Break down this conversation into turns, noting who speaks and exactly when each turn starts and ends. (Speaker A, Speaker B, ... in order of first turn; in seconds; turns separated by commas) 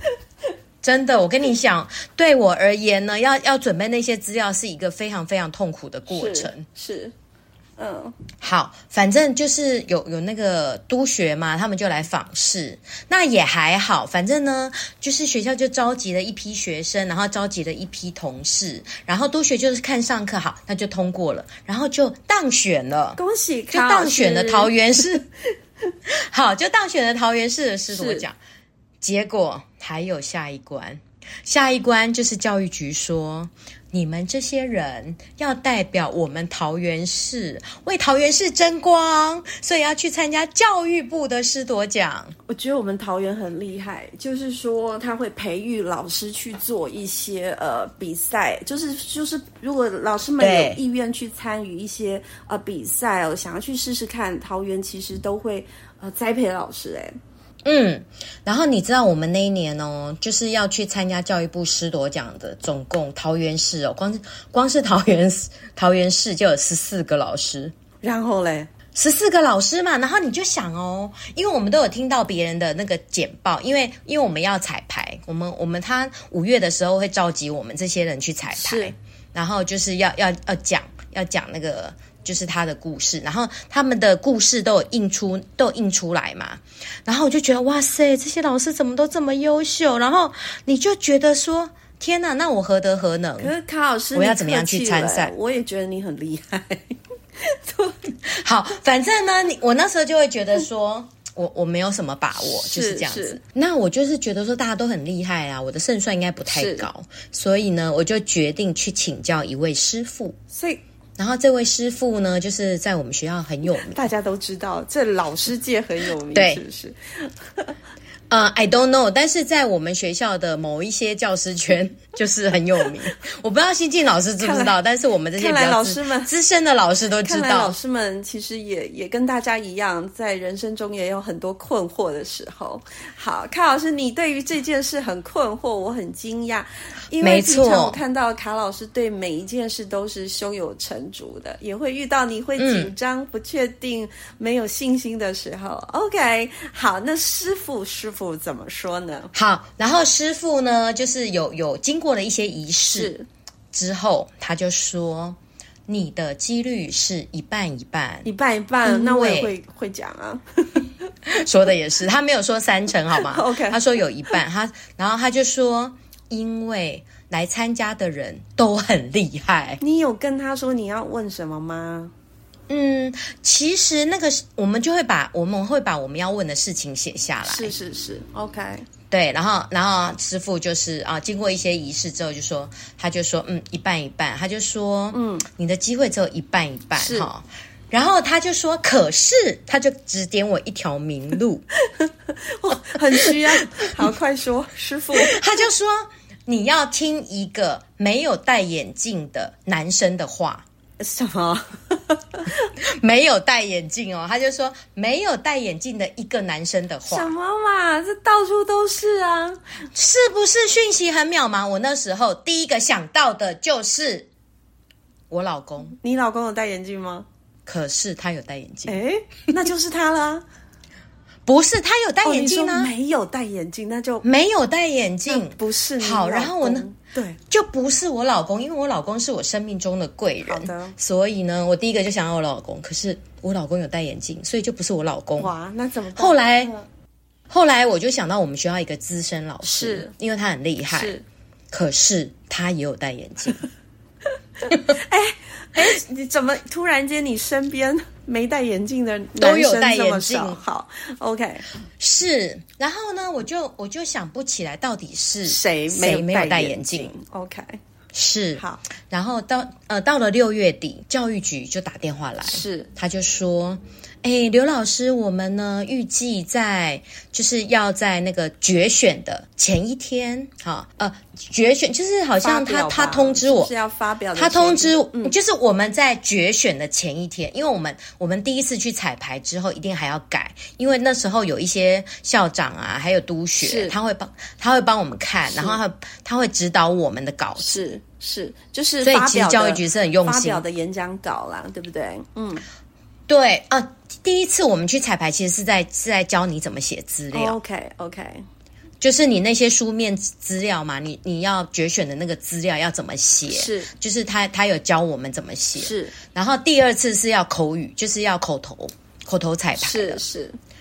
Speaker A: 0.8-6.7, Speaker B: 6.1-7.1, Speaker B: 7.8-8.2, Speaker A: 8.4-23.2, Speaker B: 23.2-25.1, Speaker A: 23.7-25.2, Speaker A: 26.1-28.4, Speaker B: 27.9-28.2, Speaker A: 29.0-42.4, Speaker B: 42.5-57.2, Speaker A: 50.4-50.8, Speaker A: 57.6-67.7, Speaker B: 68.0-68.7, Speaker A: 69.0-93.5, Speaker B: 78.5-79.0, Speaker B: 93.4-98.1, Speaker A: 94.2-95.3, Speaker A: 98.2-110.4, Speaker B: 102.4-103.4, Speaker B: 106.5-106.9, Speaker B: 110.5-110.8, Speaker A: 111.2-114.1, Speaker B: 113.8-117.7, Speaker A: 116.3-116.6, Speaker A: 118.3-127.8, Speaker B: 124.4-124.8, Speaker B: 125.3-126.3, Speaker B: 127.2-149.3, Speaker A: 137.2-138.0, Speaker A: 142.6-142.9, Speaker A: 149.3-153.1, Speaker B: 152.9-153.3, Speaker A: 153.7-158.3, Speaker B: 158.2-160.9, Speaker A: 158.8-159.5, Speaker A: 161.3-169.8, Speaker B: 163.2-163.8, Speaker B: 169.8-172.1, Speaker A: 172.7-177.7, Speaker B: 177.4-178.9, Speaker A: 179.1-191.7, Speaker B: 185.1-185.5, Speaker B: 187.0-187.3, Speaker B: 191.9-195.4, Speaker A: 193.2-193.8, Speaker A: 195.1-200.6, Speaker B: 201.0-202.6, Speaker A: 202.8-207.3, Speaker B: 207.1-209.6, Speaker A: 209.9-214.3, Speaker A: 215.3-216.0, Speaker B: 216.0-217.3, Speaker A: 217.7-219.0, Speaker B: 218.9-220.4, Speaker A: 221.5-222.9, Speaker B: 222.2-224.2, Speaker A: 224.2-226.9, Speaker B: 225.3-227.4, Speaker A: 227.5-235.5, Speaker B: 230.5-231.0, Speaker B: 235.4-236.9, Speaker A: 236.2-236.7, Speaker A: 237.5-241.2, Speaker B: 239.6-240.1, Speaker B: 240.9-241.2, Speaker A: 241.7-243.7, Speaker B: 244.7-251.7, Speaker A: 249.4-250.6, Speaker A: 252.0-257.1, Speaker B: 255.5-257.8, Speaker A: 258.1-273.7, Speaker B: 258.6-258.8, Speaker B: 262.4-262.9, Speaker B: 272.4-275.4, Speaker A: 274.4-287.9, Speaker B: 283.6-284.0, Speaker B: 285.5-285.8, Speaker B: 287.6-292.6, Speaker A: 289.0-290.6, Speaker A: 293.3-297.6, Speaker B: 297.3-298.5, Speaker A: 299.0-310.2, Speaker B: 303.5-303.9, Speaker B: 305.8-306.2, Speaker B: 309.8-310.6